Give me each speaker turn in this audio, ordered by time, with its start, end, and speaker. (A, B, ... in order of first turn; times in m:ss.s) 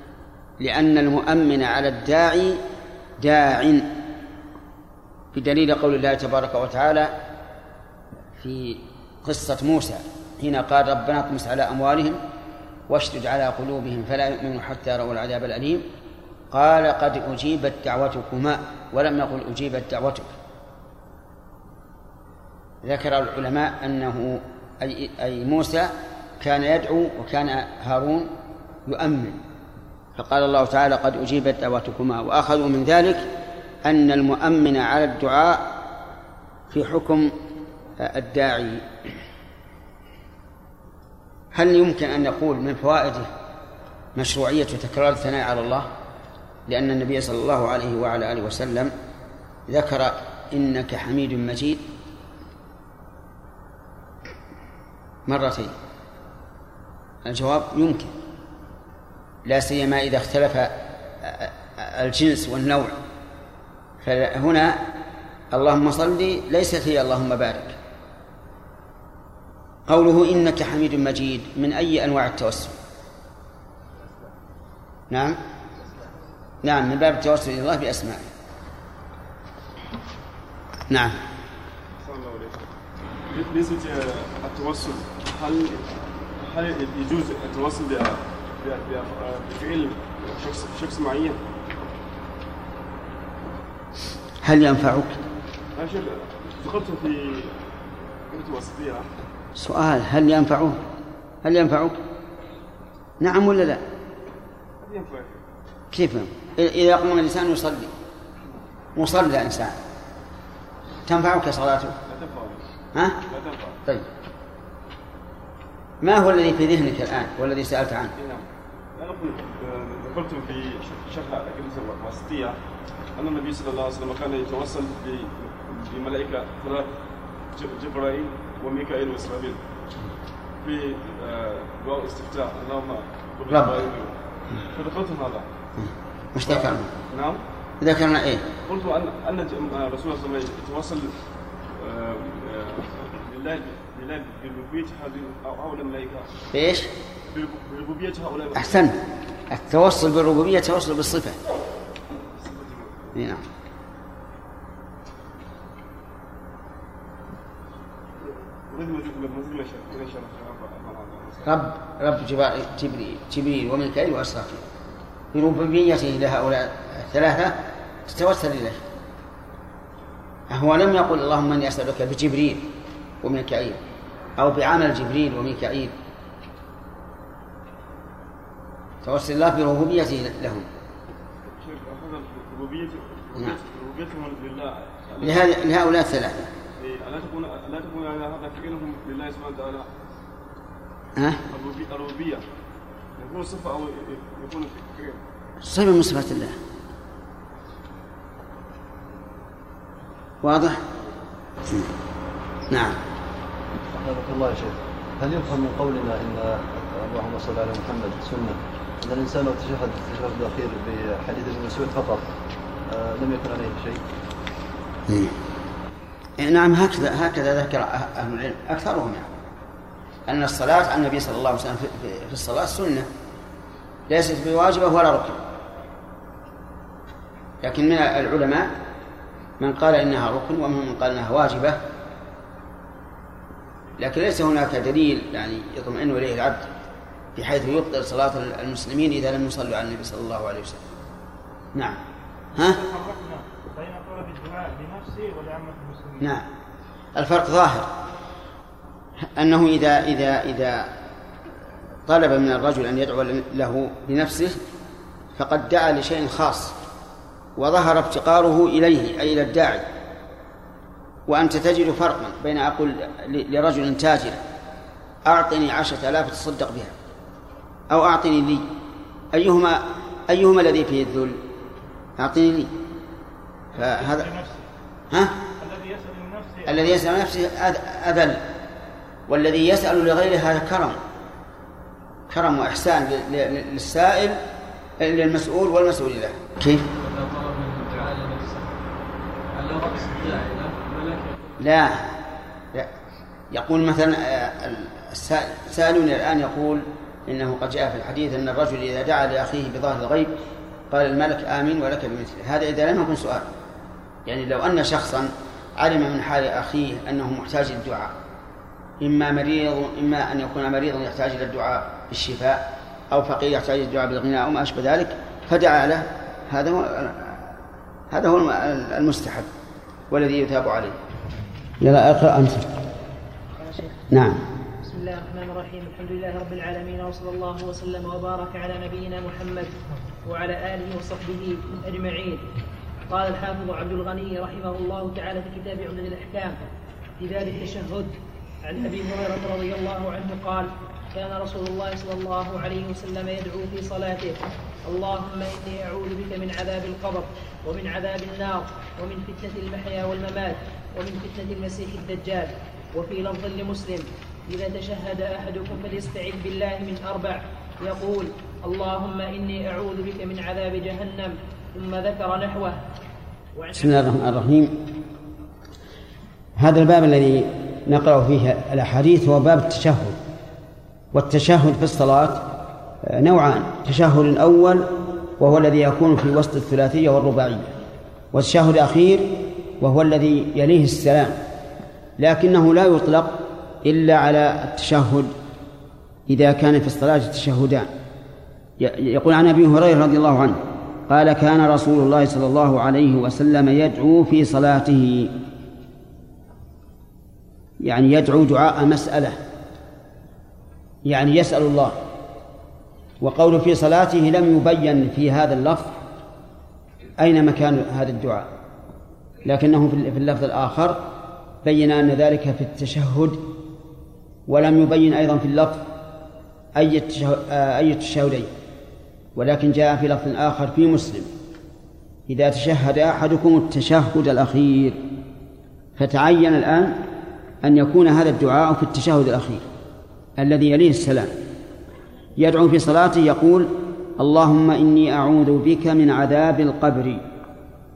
0:00.6-0:02.6 A
0:03.2-0:03.9 A
0:05.3-0:07.1 A
0:08.4-0:12.2 A
0:12.9-0:15.8 A
0:16.5-0:20.3 A
0:22.8-0:28.3 A
0:28.9-0:29.4 A
0:30.2-0:33.3 A
0:33.8-0:35.7 A
0:36.7-0:37.3 A
0:38.0-0:38.8 A
0:41.5-0:43.3 A
0:44.2-0:45.9 A
0:46.7-0:48.9 A
0:49.7-0:51.8 A
0:55.3-0:55.8 A
0:57.2-0:58.1 A
0:59.5-1:03.0 A
1:04.0-1:04.8 A
1:05.5-1:07.8 A
1:09.9-1:12.8 A
1:15.1-1:15.4 A
1:16.6-1:18.3 A
1:20.9-1:21.2 A
1:22.0-1:22.6 B
1:23.3-1:25.9 B
1:26.4-1:31.4 B
1:34.4-1:35.2 A
1:35.7-1:37.5 B
1:38.3-1:39.1 B
1:39.6-1:40.8 A
1:41.4-1:42.0 A
1:43.2-1:43.8 A
1:44.8-1:45.4 B
1:45.9-1:47.9 A
1:49.0-1:49.8 A
1:51.1-1:52.0 A
1:52.1-1:52.6 B
1:53.0-1:53.2 A
1:53.3-1:53.8 B
1:56.0-1:58.1 A
1:58.2-2:02.6 B
2:03.2-2:06.9 B
2:07.5-2:09.6 B
2:10.6-2:15.5 B
2:13.5-2:13.8 A
2:16.3-2:16.9 A
2:16.5-2:17.4 B
2:17.8-2:18.4 A
2:18.6-2:21.2 B
2:21.7-2:26.3 B
2:26.5-2:26.9 A
2:27.3-2:28.8 B
2:28.6-2:31.4 A
2:32.3-2:33.2 B
2:33.2-2:33.4 A
2:38.2-2:41.5 B
2:41.4-2:44.6 A
2:45.3-2:48.8 A
2:50.5-2:52.7 A
2:53.2-2:53.8 A
2:54.4-2:55.9 A
2:59.0-3:00.7 A
3:01.5-3:05.5 B
3:05.2-3:06.5 A
3:06.8-3:09.9 B
3:11.2-3:11.4 A
3:11.5-3:12.4 B
3:13.2-3:15.2 B
3:15.6-3:16.6 A
3:20.4-3:20.8 A
3:22.7-3:23.0 A
3:23.9-3:32.3 C
3:32.9-3:34.0 C
3:35.1-3:35.3 A
3:36.4-3:39.3 A
3:40.3-3:43.1 A
3:44.1-3:45.4 A
3:47.6-3:48.7 A
3:49.6-3:51.8 A
3:54.0-3:56.7 A
3:57.4-4:00.8 A
4:02.6-4:02.8 A
4:02.6-4:06.3 D
4:06.2-4:06.4 A
4:07.2-4:07.9 A
4:09.4-4:10.9 A
4:12.1-4:14.6 A
4:15.4-4:16.8 A
4:17.6-4:19.8 A
4:21.3-4:24.4 A
4:25.2-4:27.0 A
4:27.9-4:28.6 A
4:29.3-4:31.4 A
4:32.2-4:32.7 A
4:33.8-4:34.3 A
4:33.8-4:34.6 D
4:35.1-4:35.4 A
4:35.6-4:37.0 D
4:36.7-4:38.4 A
4:39.3-4:41.0 A
4:42.3-4:44.4 A
4:45.0-4:46.9 A
4:47.0-4:48.7 D
4:49.5-4:51.3 D
4:51.6-4:52.0 A
4:53.5-5:00.4 A
5:00.9-5:03.5 A
5:04.3-5:08.1 A
5:09.0-5:17.6 A
5:18.1-5:19.5 A
5:20.1-5:21.0 A
5:21.8-5:22.7 A
5:23.6-5:24.0 E
5:24.1-5:24.4 A
5:24.8-5:29.7 E
5:30.2-5:32.4 E
5:33.1-5:36.6 E
5:37.2-6:02.8 E
6:03.6-6:04.0 E
6:03.7-6:04.8 A
6:06.6-6:10.2 A
6:11.1-6:12.4 A
6:13.1-6:17.8 A
6:18.3-6:21.4 A
6:22.2-6:25.3 A
6:26.3-6:27.9 A
6:28.8-6:35.3 A
6:37.8-6:39.4 A
6:41.1-6:42.0 A
6:43.2-6:46.0 A
6:47.2-6:48.5 A
6:49.4-6:51.0 A
6:51.6-6:53.5 A
6:54.5-6:55.8 A
6:56.8-6:58.5 A
6:59.4-7:01.3 A
7:02.3-7:05.0 A
7:06.0-7:07.0 A
7:07.6-7:09.6 A
7:10.4-7:11.3 A
7:12.4-7:17.2 A